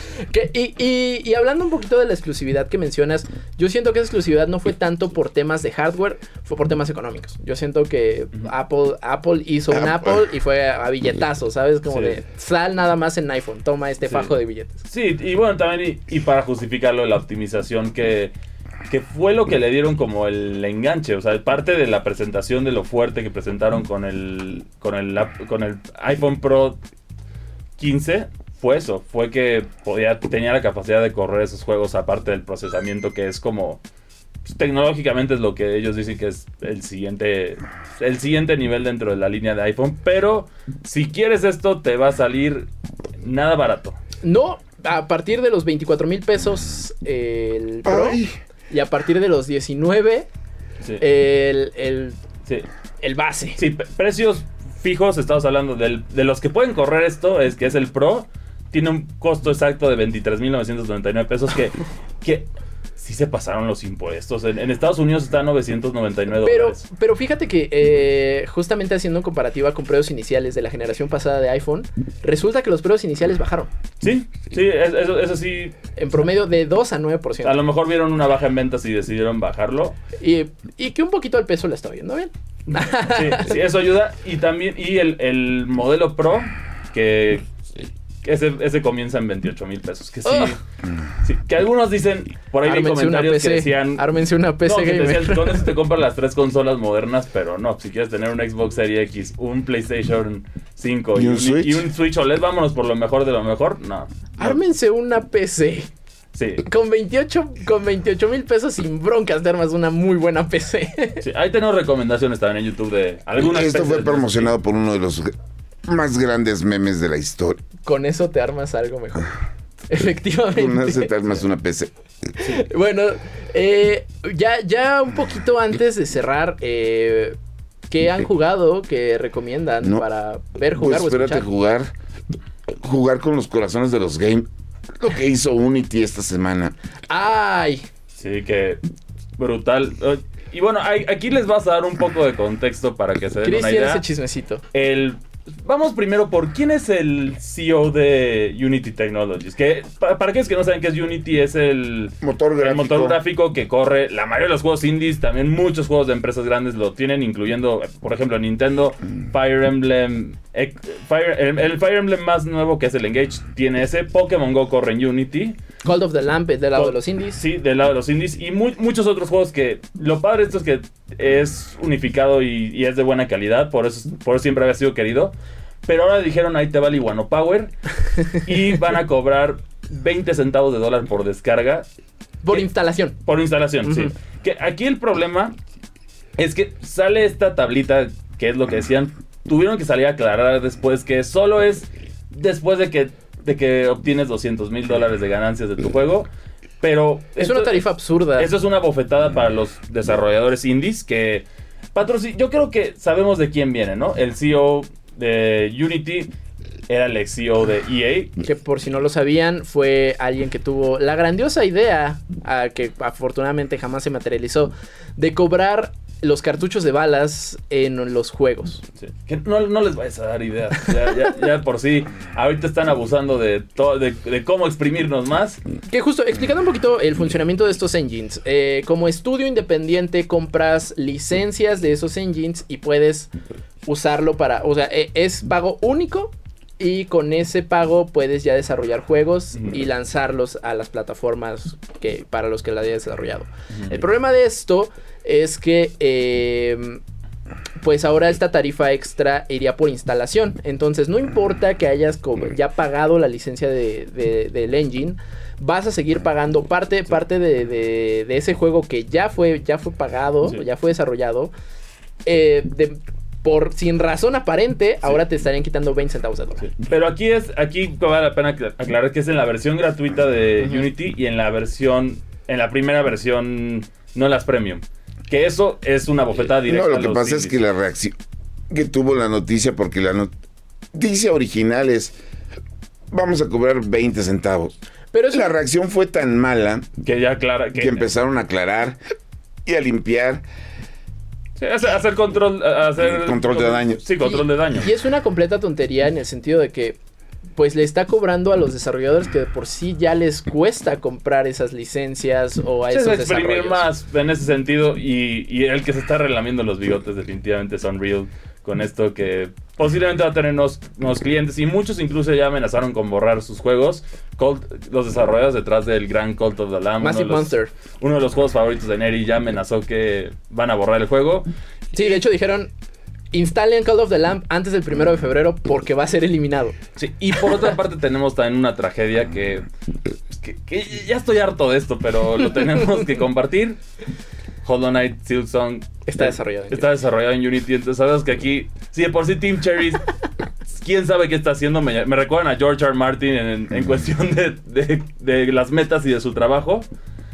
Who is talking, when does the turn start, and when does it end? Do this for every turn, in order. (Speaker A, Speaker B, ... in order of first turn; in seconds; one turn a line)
Speaker A: 0.2-14.8
Speaker B: 9.7-10.2
Speaker C: 11.9-12.2
Speaker C: 14.9-18.3
Speaker C: 18.9-26.8
Speaker C: 27.8-33.8
Speaker C: 34.4-42.7
Speaker C: 43.2-44.0
Speaker A: 44.2-50.3
Speaker B: 47.8-48.4
Speaker A: 51.0-52.2
Speaker A: 53.0-53.6
Speaker C: 53.6-66.8
Speaker A: 66.4-73.7
Speaker C: 74.0-75.8
Speaker A: 76.0-77.5
Speaker C: 77.4-80.0
Speaker A: 80.2-83.5
Speaker C: 82.7-87.4
Speaker C: 88.2-90.6
Speaker A: 90.2-90.6
Speaker C: 91.2-94.0
Speaker A: 92.6-95.6
Speaker C: 94.6-104.6
Speaker B: 101.1-101.8
Speaker A: 104.4-105.9
Speaker C: 106.3-106.6
Speaker A: 106.7-111.2
Speaker C: 111.2-114.5
Speaker B: 113.4-115.3
Speaker B: 115.8-117.6
Speaker A: 117.8-119.3
Speaker A: 119.9-121.1
Speaker B: 120.5-121.9
Speaker A: 122.4-127.4
Speaker A: 127.9-131.5
Speaker B: 130.8-131.9
Speaker B: 132.8-136.7
Speaker A: 137.1-137.9
Speaker C: 138.2-138.8
Speaker C: 139.4-144.0
Speaker A: 143.4-144.6
Speaker C: 144.7-165.6
Speaker B: 152.2-153.2
Speaker A: 165.8-167.4
Speaker C: 166.8-175.3
Speaker C: 175.8-181.8
Speaker A: 182.4-183.2
Speaker C: 183.2-185.6
Speaker A: 183.8-184.1
Speaker C: 186.4-196.3
Speaker C: 196.8-197.8
Speaker A: 197.4-198.5
Speaker C: 198.4-206.3
Speaker C: 206.9-208.3
Speaker A: 208.4-218.8
Speaker C: 219.0-225.6
Speaker A: 225.9-233.3
Speaker A: 233.8-247.0
Speaker C: 243.7-244.0
Speaker A: 247.8-261.5
Speaker A: 262.2-266.7
Speaker C: 266.7-277.6
Speaker B: 276.6-278.1
Speaker B: 278.7-280.3
Speaker B: 280.9-282.1
Speaker B: 283.1-284.7
Speaker A: 285.1-285.5
Speaker B: 285.3-286.9
Speaker C: 287.0-288.1
Speaker B: 287.8-289.0
Speaker B: 289.6-290.4
Speaker C: 291.6-294.9
Speaker B: 293.0-294.0
Speaker A: 294.2-297.0
Speaker A: 297.6-303.9
Speaker C: 302.9-322.2
Speaker A: 317.0-317.7
Speaker A: 321.9-322.7
Speaker A: 323.3-326.8
Speaker C: 327.0-329.7
Speaker C: 330.3-333.8
Speaker C: 334.6-340.1
Speaker A: 336.1-336.9
Speaker C: 340.7-346.9